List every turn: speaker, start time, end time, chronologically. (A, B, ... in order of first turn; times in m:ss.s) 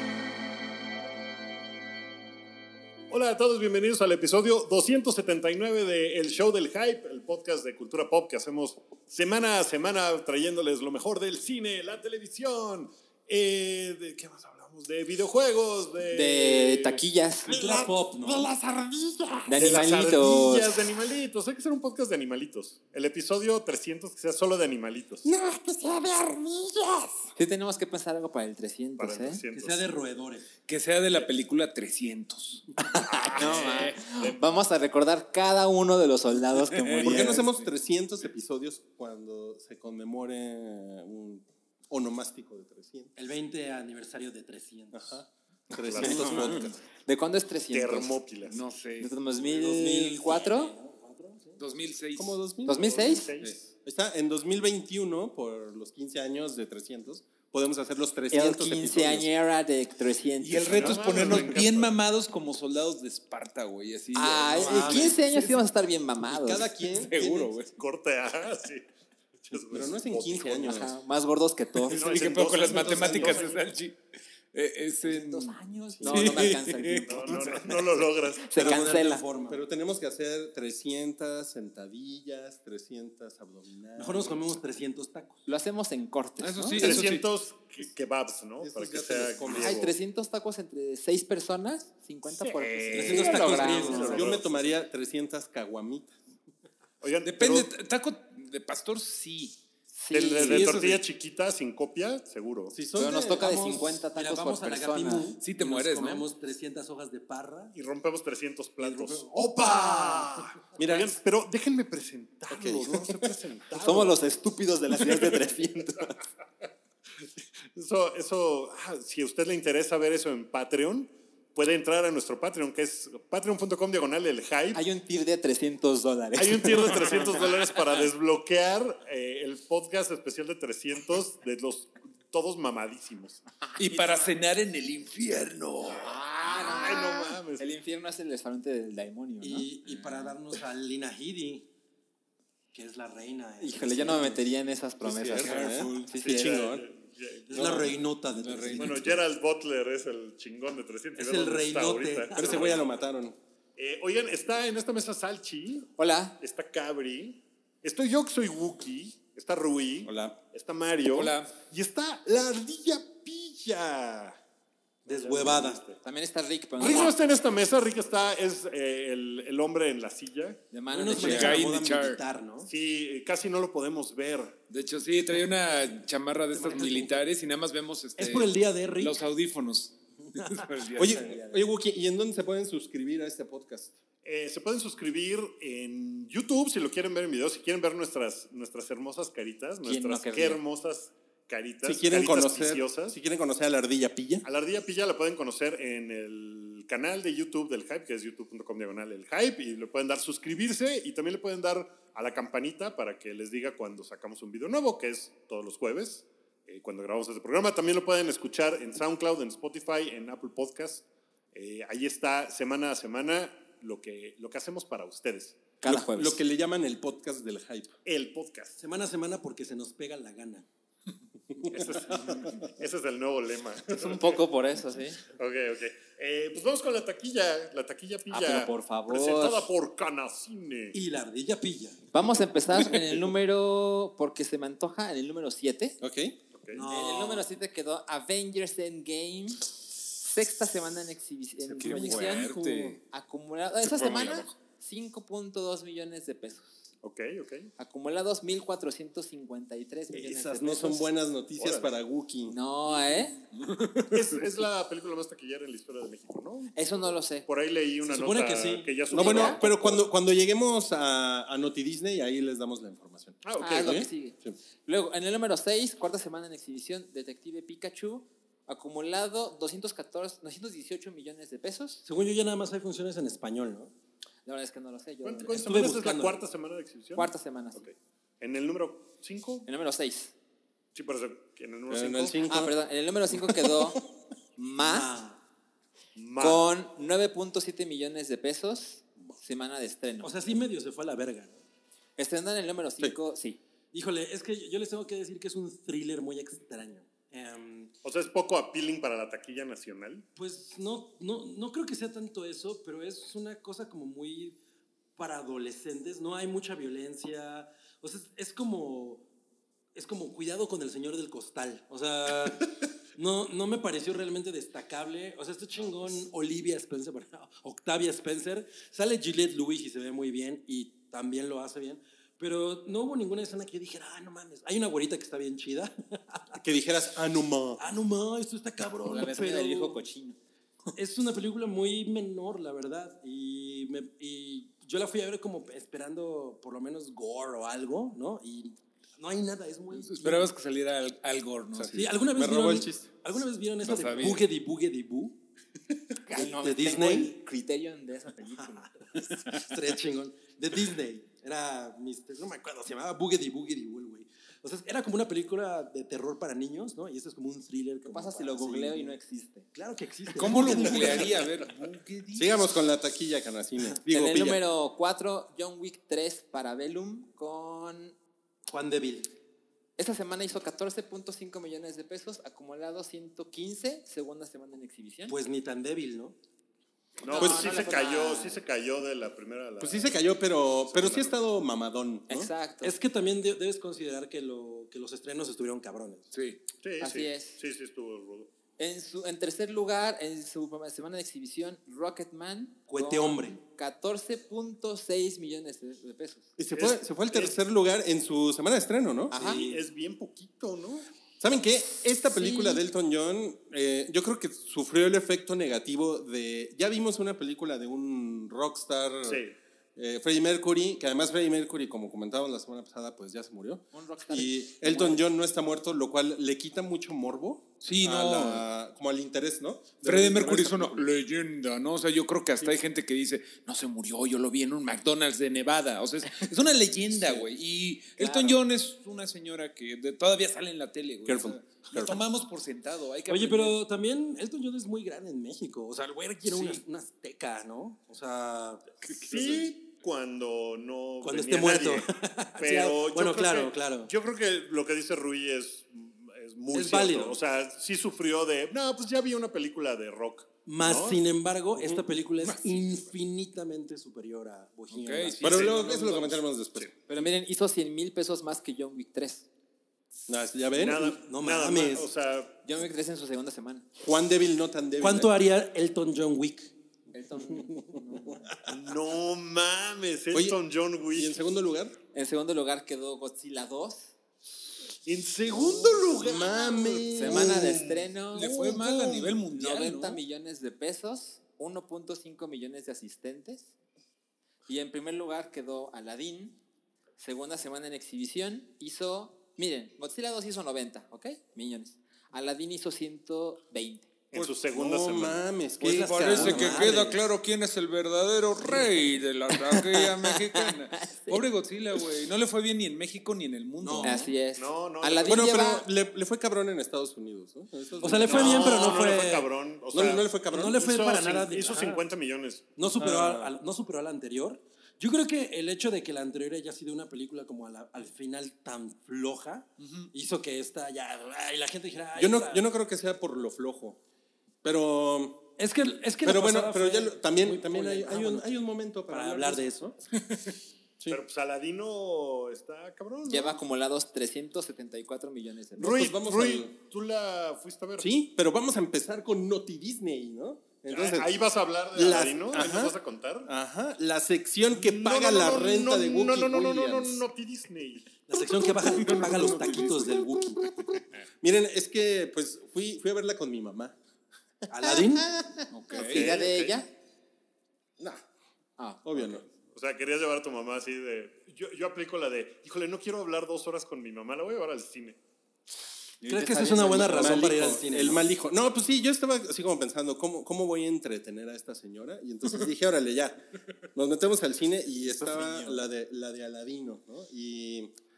0:03.1-0:17.0 A
0:16.1-0:17.5 B
0:17.5-0:18.5 C
0:17.5-0:19.6 D
0:19.4-0:20.7 B
0:19.6-0:25.3 A
0:25.2-0:27.2 D
0:27.3-0:29.4 B
0:29.0-0:29.8 A
0:29.5-0:30.5 C
0:30.7-0:32.7 E
0:32.8-0:37.4 B
0:33.0-0:34.4 A
0:33.3-0:33.8 E
0:36.7-0:37.6 E
0:37.0-0:43.1 D
0:43.2-0:45.2 C
0:44.9-0:46.8 D
0:45.8-0:46.6 A
0:46.0-0:46.6 E
0:47.0-0:48.2 B
0:47.7-0:48.6 A
0:48.4-0:49.2 E
0:49.0-0:50.7 B
0:49.4-0:51.6 C
0:51.6-0:52.4 E
0:52.2-0:52.9 D
0:52.6-0:53.3 B
0:52.8-0:53.7 A
0:53.8-0:59.3 D
0:58.3-1:01.5 B
1:00.4-1:05.6 E
1:00.7-1:01.9 A
1:04.1-1:06.6 B
1:04.5-1:05.2 C
1:06.3-1:07.5 D
1:07.0-1:07.7 E
1:07.7-1:08.8 A
1:09.4-1:10.9 A
1:09.7-1:10.9 D
1:10.6-1:12.0 B
1:11.8-1:14.0 E
1:11.9-1:13.6 A
1:14.5-1:17.8 E
1:15.0-1:17.6 B
1:15.9-1:16.4 D
1:17.0-1:18.6 A
1:18.5-1:19.2 B
1:18.5-1:19.6 C
1:19.5-1:24.4 D
1:24.0-1:25.4 C
1:25.4-1:27.1 B
1:26.4-1:27.3 E
1:26.8-1:29.8 A
1:28.6-1:30.0 D
1:29.5-1:34.3 B
1:32.3-1:34.6 A
1:32.9-1:34.2 C
1:34.1-1:36.1 D
1:37.0-1:37.7 A
1:37.2-1:39.6 E
1:39.9-1:40.9 B
1:40.1-1:42.7 A
1:40.4-1:41.0 C
1:42.7-1:43.6 D
1:43.0-1:45.3 B
1:43.4-1:47.7 C
1:45.4-1:46.2 E
1:47.7-1:54.2 A
1:48.8-1:50.4 C
1:50.8-1:51.1 D
1:52.5-1:53.3 D
1:53.7-1:56.1 B
1:55.0-1:55.4 A
1:57.7-2:04.8 A
2:04.7-2:07.3 B
2:06.4-2:13.4 A
2:13.8-2:16.2 E
2:16.0-2:19.7 B
2:16.4-2:17.6 A
2:19.4-2:21.7 C
2:19.9-2:20.4 E
2:22.7-2:24.5 C
2:23.6-2:26.4 B
2:25.0-2:26.9 D
2:25.3-2:26.1 E
2:26.2-2:27.9 A
2:27.5-2:29.1 C
2:27.6-2:27.8 E
2:28.4-2:29.1 E
2:28.8-2:32.9 A
2:31.1-2:32.7 C
2:32.4-2:33.4 D
2:33.8-2:44.4 A
2:36.0-2:36.4 B
2:40.0-2:40.4 D
2:41.0-2:41.6 E
2:45.0-2:46.0 A
2:45.0-2:45.8 C
2:46.0-2:47.2 B
2:46.8-2:50.6 A
2:50.7-2:51.6 B
2:50.9-2:52.7 C
2:51.1-2:52.2 E
2:52.7-2:54.6 A
2:54.7-3:01.4 E
2:56.5-2:57.2 C
2:58.2-2:59.2 C
3:00.4-3:01.5 C
3:01.0-3:03.9 D
3:04.2-3:13.2 A
3:09.8-3:10.6 B
3:11.8-3:14.4 D
3:14.4-3:35.6 A
3:35.8-3:36.4 B
3:35.8-3:37.9 D
3:38.0-3:38.8 A
3:38.8-3:40.6 C
3:41.7-3:44.4 A
3:43.9-3:45.2 B
3:45.4-3:51.0 A
3:48.3-3:49.7 B
3:50.9-3:52.0 C
3:52.1-3:56.0 B
3:56.0-3:56.4 D
3:56.5-3:56.8 A
3:56.7-3:57.5 C
3:56.9-3:59.7 B
4:00.2-4:06.8 B
4:01.6-4:02.5 D
4:01.8-4:03.0 E
4:03.9-4:04.4 E
4:07.0-4:07.7 A
4:07.8-4:11.1 B
4:10.1-4:12.6 D
4:11.6-4:11.9 A
4:12.5-4:13.4 B
4:13.5-4:14.4 E
4:14.1-4:16.7 A
4:16.7-4:17.4 B
4:17.4-4:19.8 A
4:18.0-4:20.0 C
4:19.1-4:19.6 B
4:19.1-4:24.6 D
4:23.4-4:24.1 A
4:23.6-4:32.0 B
4:32.0-4:33.9 C
4:34.4-4:35.6 B
4:35.2-4:39.6 A
4:35.6-4:36.4 C
4:37.2-4:37.8 B
4:39.6-4:40.3 B
4:40.9-4:42.4 A
4:41.9-4:42.7 D
4:42.5-4:44.0 B
4:43.4-4:43.9 D
4:44.6-4:45.1 B
4:44.8-4:45.4 C
4:46.2-4:46.7 A
4:46.4-4:50.3 B
4:50.2-4:51.6 C
4:52.2-4:53.6 B
4:53.9-4:57.9 C
4:58.0-5:00.2 A
5:00.3-5:04.6 C
5:05.2-5:09.2 C
5:09.9-5:26.6 C
5:26.6-5:27.8 D
5:27.8-5:30.0 C
5:29.0-5:30.4 B
5:30.9-5:40.5 C
5:39.9-5:41.9 E
5:41.8-5:43.1 D
5:41.9-5:45.4 C
5:43.8-5:44.4 E
5:46.2-5:49.2 B
5:46.3-5:47.4 C
5:48.6-5:59.2 C
5:49.3-5:49.6 E
5:58.0-5:59.7 B
5:59.7-6:01.5 C
6:00.3-6:02.6 E
6:02.3-6:04.6 D
6:04.1-6:08.1 B
6:08.7-6:09.3 C
6:10.0-6:15.4 B
6:15.3-6:16.3 C
6:17.2-6:20.3 A
6:17.2-6:18.6 B
6:17.3-6:17.8 D
6:19.8-6:22.5 D
6:20.8-6:21.3 A
6:22.3-6:23.0 B
6:22.8-6:26.3 C
6:26.3-6:26.6 E
6:26.8-6:28.5 A
6:27.0-6:27.6 B
6:28.8-6:36.5 B
6:32.9-6:33.6 C
6:36.6-6:39.4 D
6:36.7-6:37.6 A
6:39.3-6:39.6 B
6:39.3-6:39.8 C
6:39.5-6:41.1 A
6:41.4-6:49.4 D
6:42.3-6:42.8 B
6:49.2-6:49.5 A
6:50.0-7:01.1 D
6:53.9-6:55.2 B
6:57.8-6:58.6 E
7:00.0-7:13.8 E
7:07.1-7:07.5 D
7:08.2-7:08.6 B
7:11.2-7:12.2 D
7:13.3-7:18.8 C
7:16.4-7:16.8 E
7:19.0-7:19.3 E
7:19.3-7:31.2 A
7:21.2-7:24.1 C
7:26.7-7:27.4 C
7:30.6-7:35.7 C
7:31.8-7:32.0 D
7:32.4-7:33.1 E
7:34.9-7:36.4 E
7:35.4-7:36.9 D
7:37.1-7:39.5 B
7:40.3-7:41.2 D
7:40.7-7:42.5 A
7:41.1-7:42.1 C
7:42.6-7:43.8 B
7:44.0-7:45.3 D
7:45.0-7:46.7 C
7:47.1-7:48.4 B
7:47.5-7:48.0 C
7:48.7-7:51.4 A
7:50.3-7:50.6 D
7:51.1-7:52.0 D
7:52.1-7:54.1 B
7:55.0-7:59.4 A
7:55.6-7:58.0 D
7:57.1-7:58.5 B
7:58.3-8:00.2 E
7:59.5-8:03.7 B
8:04.7-8:06.6 B
8:07.2-8:14.1 B
8:14.3-8:15.4 A
8:14.3-8:17.2 D
8:15.8-8:17.2 C
8:15.8-8:24.3 E
8:19.5-8:21.4 B
8:23.8-8:24.3 C
8:24.0-8:25.9 B
8:24.6-8:25.4 A
8:25.2-8:29.0 D
8:28.0-8:29.5 C
8:28.3-8:32.7 A
8:29.9-8:30.8 D
8:30.4-8:32.0 C
8:32.8-8:42.7 C
8:33.0-8:33.5 D
8:39.8-8:40.1 E
8:42.1-8:44.0 D
8:44.6-8:45.5 D
8:45.6-8:49.9 C
8:46.2-8:49.9 D
8:51.1-8:53.6 A
8:53.3-8:56.0 B
8:55.8-8:56.7 D
8:55.8-8:58.1 A
8:58.0-9:01.3 D
9:00.9-9:03.5 A
9:01.9-9:02.9 D
9:03.4-9:07.2 D
9:04.7-9:08.1 A
9:08.3-9:10.7 C
9:08.9-9:10.3 D
9:09.0-9:09.9 E
9:11.4-9:14.0 D
9:14.7-9:15.3 C
9:15.7-9:16.3 E
9:16.0-9:16.8 A
9:16.0-9:16.9 B
9:18.8-9:19.4 B
9:19.0-9:19.4 D
9:19.7-9:25.2 A
9:26.2-9:27.6 B
9:26.2-9:28.2 C
9:27.1-9:33.4 D
9:33.9-9:37.9 D
9:35.2-9:35.8 C